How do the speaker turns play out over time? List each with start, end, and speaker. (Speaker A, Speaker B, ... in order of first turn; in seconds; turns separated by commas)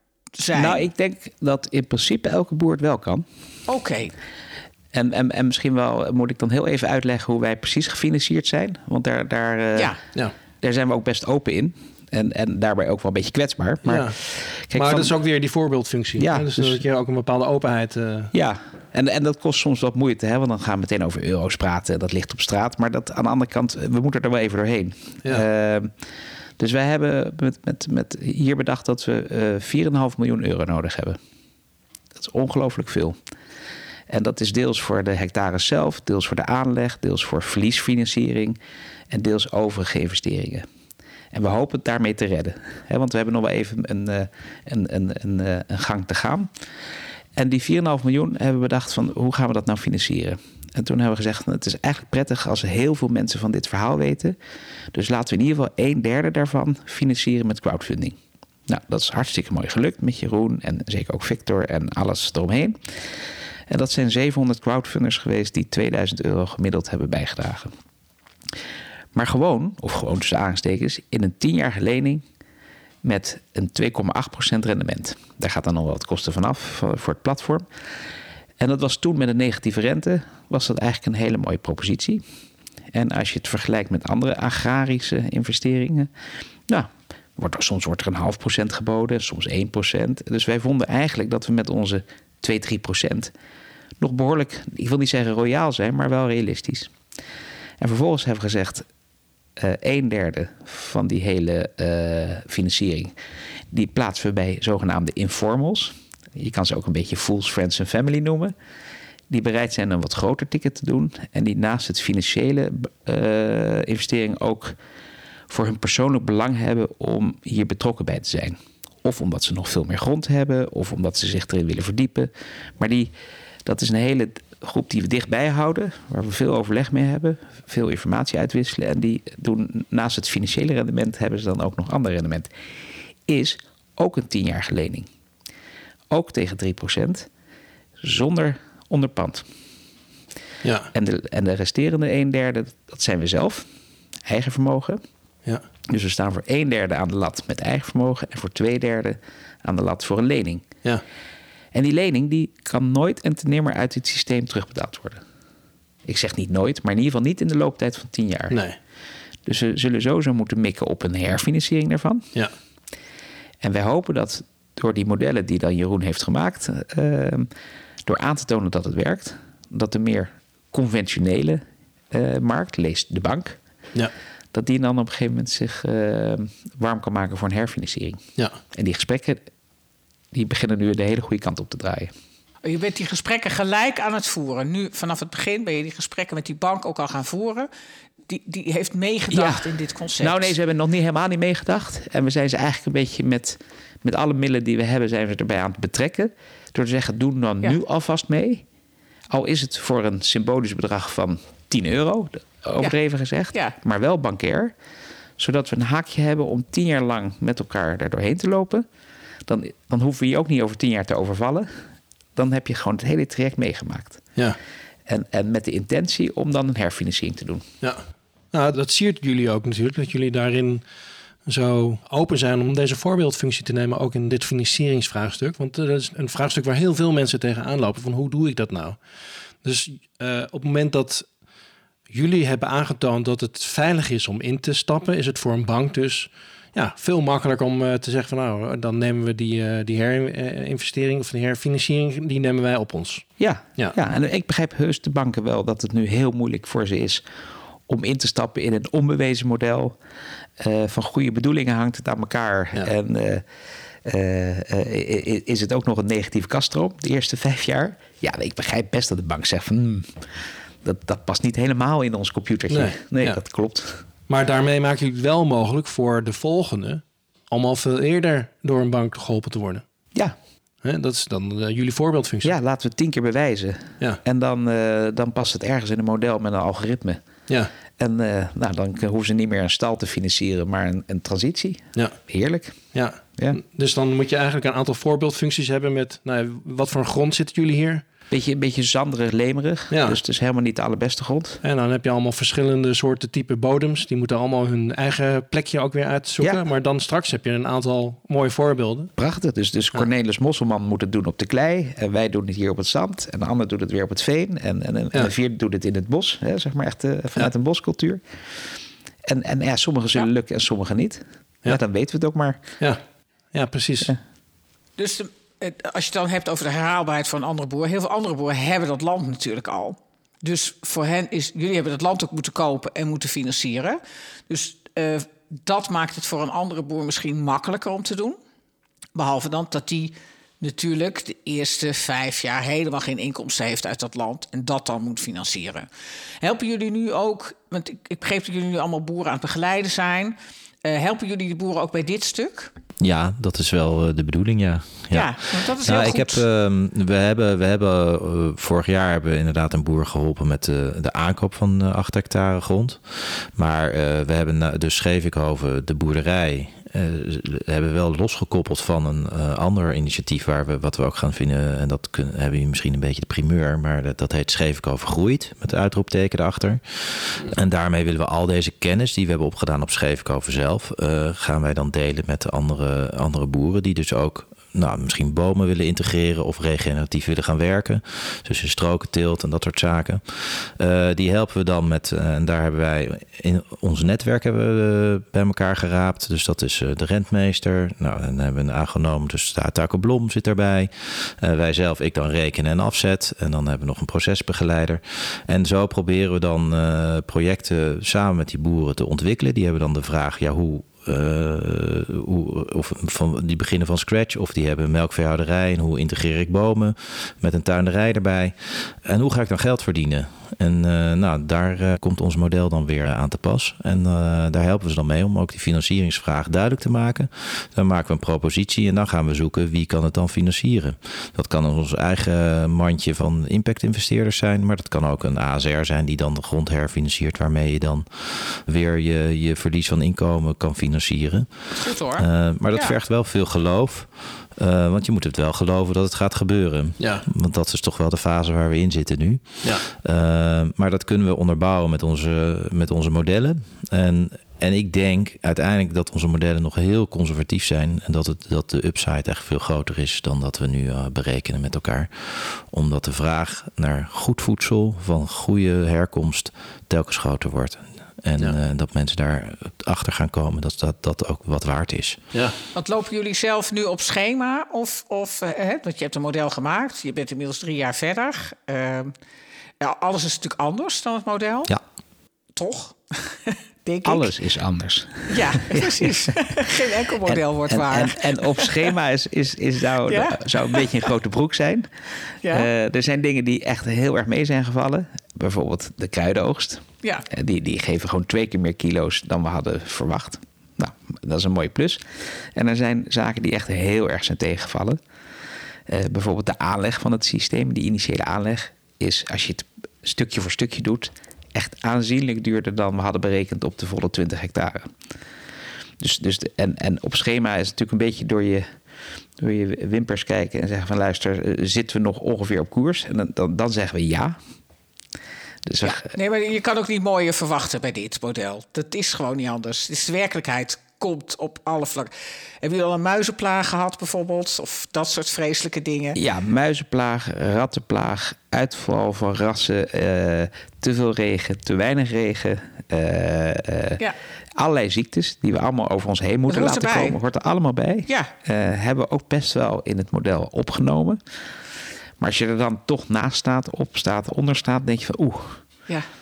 Speaker A: 0.4-0.8, Speaker B: 0.5-3.2, Speaker A: 3.7-4.1, Speaker B: 4.9-9.9, Speaker B: 10.6-15.2, Speaker C: 13.8-14.2, Speaker C: 14.7-18.3, Speaker B: 16.2-16.8, Speaker B: 18.3-25.9, Speaker B: 26.6-31.2, Speaker B: 32.2-33.2, Speaker B: 34.1-38.6, Speaker B: 39.1-40.7, Speaker B: 41.3-46.5, Speaker B: 47.4-54.4, Speaker B: 54.9-63.0, Speaker B: 63.7-67.7, Speaker B: 69.2-72.2, Speaker B: 73.0-77.7, Speaker B: 78.6-82.2, Speaker B: 82.9-86.1, Speaker B: 86.7-93.3, Speaker B: 94.0-96.9, Speaker B: 97.8-98.9, Speaker B: 99.6-103.1, Speaker B: 103.7-108.5, Speaker B: 109.3-114.7, Speaker B: 115.5-123.1, Speaker B: 123.7-132.5, Speaker B: 133.3-135.1, Speaker B: 136.1-137.3, Speaker B: 138.0-139.5, Speaker C: 140.6-140.9, Speaker B: 140.9-143.7, Speaker B: 144.3-145.0, Speaker B: 145.9-150.7, Speaker B: 151.7-155.2, Speaker B: 156.1-158.6, Speaker C: 158.5-158.8, Speaker B: 159.5-162.3, Speaker B: 163.6-167.5, Speaker B: 168.1-173.6, Speaker B: 174.5-178.2, Speaker B: 178.7-179.4, Speaker B: 180.3-182.1, Speaker A: 182.6-187.7, Speaker A: 188.3-190.5, Speaker B: 189.3-189.7, Speaker B: 190.2-198.6, Speaker B: 199.3-204.7, Speaker B: 205.4-208.8, Speaker B: 209.5-211.7, Speaker B: 212.4-214.3, Speaker B: 215.1-217.7, Speaker C: 217.8-220.9, Speaker C: 221.4-229.0, Speaker C: 229.6-231.3, Speaker C: 232.1-244.0, Speaker B: 243.4-247.2, Speaker B: 247.9-250.0, Speaker B: 250.6-253.4, Speaker B: 254.1-260.2, Speaker B: 260.8-264.0, Speaker C: 262.7-263.4, Speaker C: 264.3-269.8, Speaker C: 270.8-272.6, Speaker B: 272.4-277.2, Speaker B: 278.0-283.6, Speaker C: 282.9-288.0, Speaker B: 288.3-291.6, Speaker C: 289.9-290.2, Speaker C: 291.6-299.1, Speaker B: 299.2-308.2, Speaker B: 309.3-312.6, Speaker C: 313.5-314.1, Speaker A: 315.0-328.4, Speaker A: 329.1-335.9, Speaker A: 336.4-342.7, Speaker D: 343.0-462.2, Speaker A: 345.1-346.4, Speaker A: 431.7-433.0, Speaker C: 437.0-437.2, Speaker A: 462.8-469.1, Speaker A: 469.8-471.7, Speaker A: 472.6-474.3, Speaker B: 474.1-476.3, Speaker A: 475.3-478.9, Speaker B: 477.2-481.9, Speaker A: 480.1-480.9, Speaker B: 482.5-492.0, Speaker B: 492.6-495.0, Speaker B: 495.9-504.9, Speaker B: 506.0-508.7, Speaker B: 509.4-514.4, Speaker B: 515.7-516.1, Speaker A: 515.8-522.1, Speaker A: 522.6-526.2, Speaker B: 526.2-534.0, Speaker B: 534.6-541.2, Speaker A: 536.5-537.2, Speaker A: 538.1-538.3, Speaker B: 542.2-545.6